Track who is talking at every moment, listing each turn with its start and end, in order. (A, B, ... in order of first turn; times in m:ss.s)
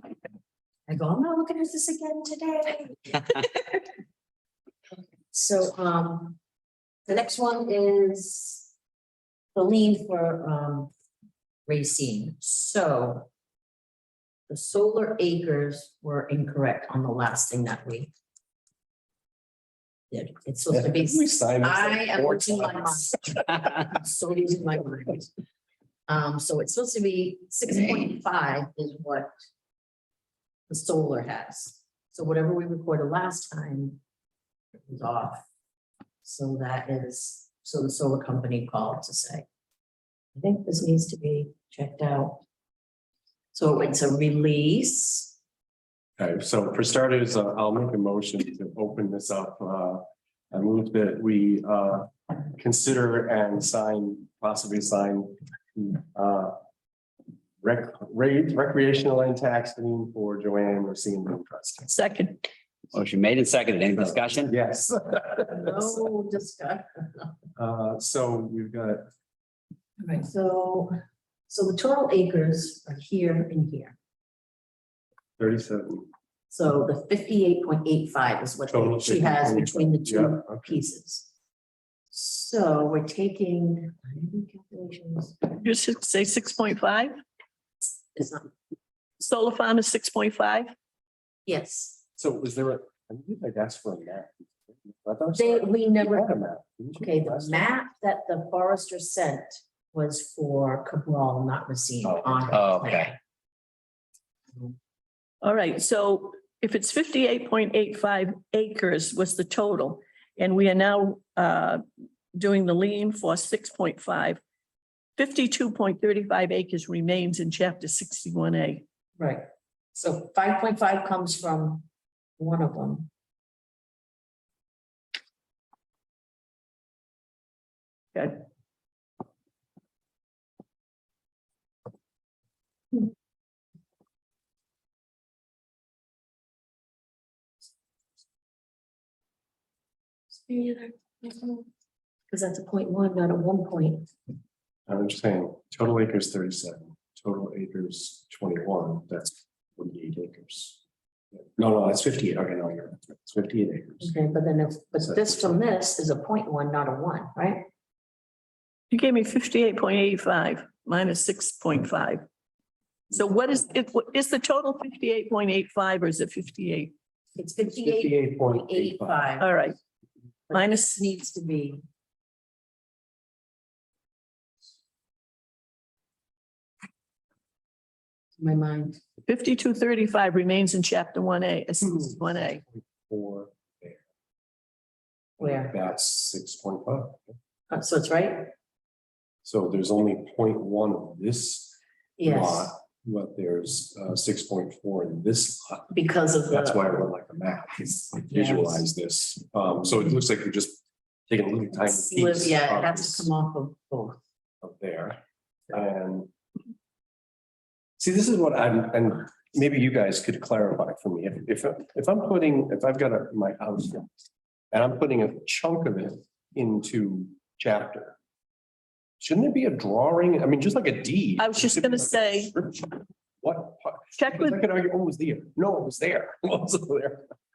0:00.9-0:03.8 A
0:05.3-0:06.4 A
0:07.1-0:08.7 A
0:09.5-0:10.9 A
0:11.7-0:13.3 A
0:14.5-0:18.1 A
0:20.1-0:25.3 A
0:20.7-0:23.4 B
0:26.1-0:29.3 A
0:30.7-0:34.0 A
0:34.8-0:35.4 A
0:36.2-0:39.4 A
0:40.3-0:42.4 A
0:43.5-0:45.4 A
0:46.2-0:56.6 B
0:57.6-1:02.0 B
1:01.9-1:02.4 C
1:02.9-1:04.5 D
1:04.0-1:06.0 B
1:05.5-1:07.4 A
1:07.6-1:09.1 B
1:10.0-1:10.9 A
1:11.5-1:14.0 A
1:15.4-1:16.1 B
1:16.5-1:21.3 A
1:18.7-1:20.8 B
1:22.1-1:25.6 A
1:25.6-1:27.2 C
1:28.1-1:28.5 A
1:29.2-1:30.7 C
1:31.4-1:32.0 A
1:32.2-1:37.8 B
1:35.3-1:36.3 A
1:37.0-1:43.2 A
1:42.0-1:42.6 B
1:42.5-1:43.1 D
1:45.4-1:54.4 C
1:55.2-1:58.8 C
1:59.2-2:01.8 A
2:02.4-2:03.1 A
2:08.1-2:08.4 C
2:20.4-2:21.6 A
2:22.3-2:24.1 A
2:24.9-2:30.8 B
2:31.4-2:34.1 B
2:34.0-2:37.7 A
2:35.0-2:35.6 B
2:38.9-2:42.2 C
2:43.1-2:46.9 C
2:47.4-2:49.7 A
2:47.6-2:49.3 B
2:49.4-2:49.8 C
2:50.5-2:51.8 A
2:50.5-2:51.0 C
2:58.4-2:59.0 A
2:59.2-3:02.6 C
3:01.9-3:04.0 B
3:05.4-3:07.4 B
3:05.4-3:05.7 A
3:07.7-3:08.5 A
3:09.4-3:15.9 B
3:12.2-3:12.7 A
3:15.9-3:16.9 A
3:16.5-3:23.3 B
3:18.3-3:18.8 A
3:21.8-3:24.2 A
3:24.6-3:26.3 B
3:28.0-3:34.1 B
3:34.7-3:38.2 B
3:39.2-3:47.3 B
3:41.4-3:42.5 C
3:44.2-3:44.6 C